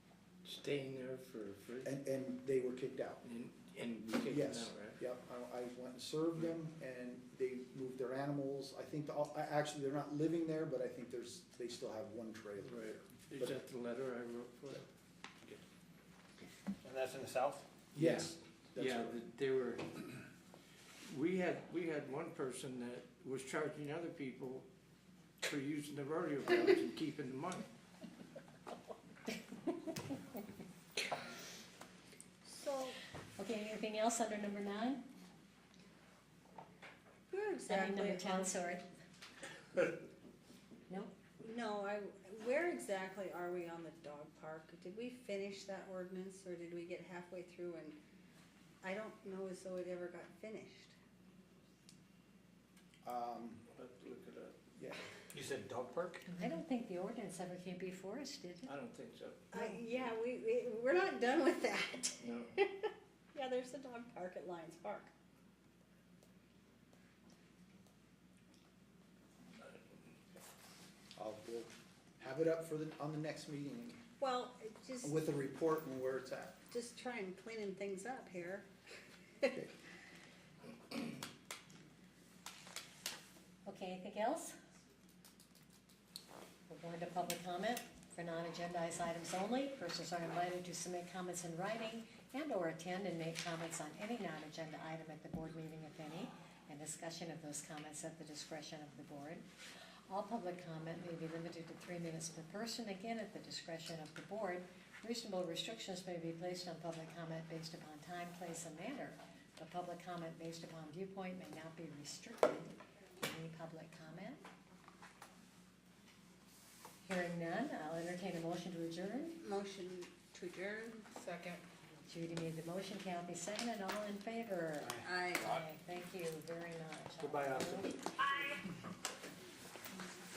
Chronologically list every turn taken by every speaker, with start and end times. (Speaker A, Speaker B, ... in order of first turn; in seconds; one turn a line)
Speaker A: 0.4-1.9
Speaker B: 1.8-3.2
Speaker A: 3.2-5.0
Speaker B: 4.3-13.6
Speaker A: 12.6-14.9
Speaker C: 16.8-18.2
Speaker B: 17.9-19.1
Speaker A: 17.9-20.1
Speaker A: 21.0-24.7
Speaker A: 25.4-27.7
Speaker D: 32.5-33.0
Speaker E: 33.4-35.0
Speaker D: 37.3-38.5
Speaker E: 37.7-38.8
Speaker D: 41.4-48.0
Speaker D: 48.8-51.0
Speaker B: 53.0-53.6
Speaker A: 53.7-54.5
Speaker C: 55.3-56.2
Speaker E: 56.3-58.7
Speaker A: 58.7-59.5
Speaker D: 59.5-65.1
Speaker E: 59.5-59.8
Speaker A: 62.2-62.5
Speaker B: 71.2-74.0
Speaker D: 74.2-75.2
Speaker B: 75.0-76.6
Speaker D: 76.7-78.7
Speaker E: 83.7-84.5
Speaker E: 86.7-99.5
Speaker E: 100.1-114.4
Speaker E: 117.0-119.4
Speaker D: 119.4-121.2
Speaker E: 122.1-127.9
Speaker D: 125.0-125.6
Speaker C: 127.2-127.9